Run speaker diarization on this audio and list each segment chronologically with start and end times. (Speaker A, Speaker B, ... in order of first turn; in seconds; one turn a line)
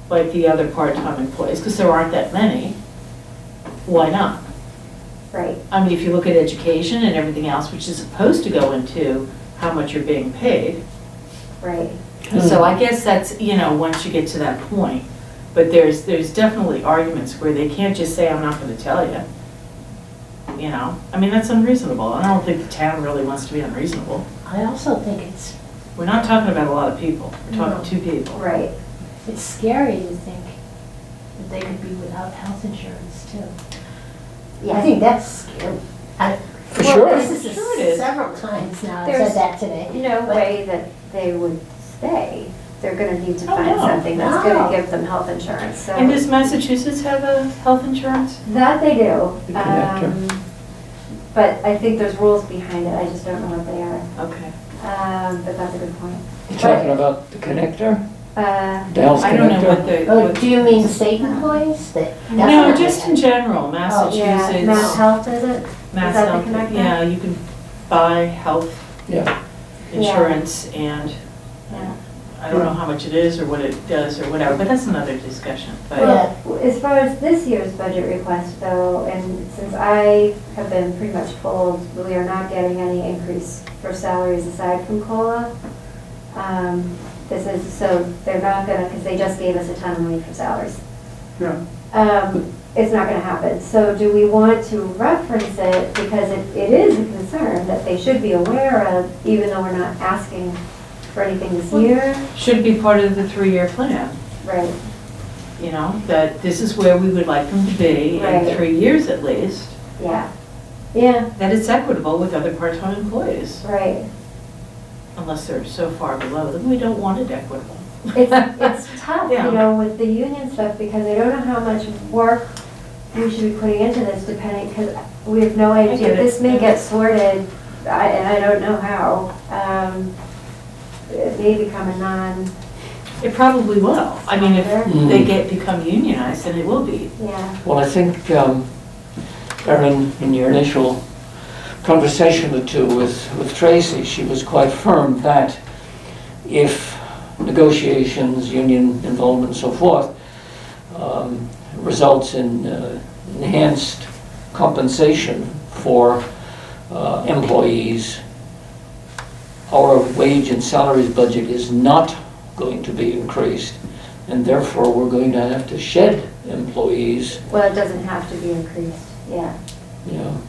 Speaker A: 0.1-2.8
Speaker A: 3.9-4.4
Speaker B: 5.3-5.6
Speaker A: 5.7-10.8
Speaker B: 11.6-12.0
Speaker A: 12.3-19.2
Speaker C: 12.3-12.6
Speaker A: 20.6-24.2
Speaker D: 24.4-25.6
Speaker A: 26.0-28.4
Speaker D: 27.5-27.9
Speaker B: 28.3-28.7
Speaker D: 29.2-30.6
Speaker D: 31.4-33.5
Speaker D: 34.6-40.5
Speaker C: 36.7-37.3
Speaker A: 36.9-38.2
Speaker B: 39.0-46.2
Speaker A: 43.5-44.1
Speaker D: 44.1-44.8
Speaker A: 45.9-48.4
Speaker B: 48.5-50.4
Speaker C: 49.5-50.1
Speaker B: 51.3-54.1
Speaker A: 54.1-54.5
Speaker B: 54.8-57.0
Speaker C: 56.5-58.0
Speaker B: 58.4-59.7
Speaker C: 58.9-60.0
Speaker A: 59.1-61.0
Speaker D: 60.0-63.2
Speaker B: 61.2-61.5
Speaker B: 62.3-62.8
Speaker A: 62.3-65.0
Speaker D: 63.9-65.0
Speaker B: 64.1-67.0
Speaker A: 65.9-68.9
Speaker C: 69.1-69.3
Speaker A: 69.9-71.2
Speaker B: 69.9-70.4
Speaker A: 71.7-76.2
Speaker B: 76.0-85.5
Speaker D: 76.0-76.3
Speaker B: 86.3-90.8
Speaker B: 91.9-100.6
Speaker B: 101.1-102.2
Speaker A: 101.7-104.2
Speaker B: 104.4-104.8
Speaker A: 105.6-109.8
Speaker B: 108.1-108.6
Speaker B: 110.0-110.3
Speaker B: 110.9-111.3
Speaker A: 111.4-113.6
Speaker B: 113.6-114.1
Speaker A: 115.2-118.7
Speaker B: 118.1-122.5
Speaker A: 119.3-119.6
Speaker B: 123.1-130.1
Speaker A: 125.9-126.8
Speaker B: 131.1-132.5
Speaker A: 133.2-137.1
Speaker B: 134.3-134.9
Speaker C: 134.8-135.3
Speaker B: 137.2-137.6
Speaker C: 137.6-138.7
Speaker C: 139.6-145.6
Speaker C: 146.4-158.2
Speaker C: 159.7-167.4
Speaker B: 167.5-169.6
Speaker C: 170.1-170.4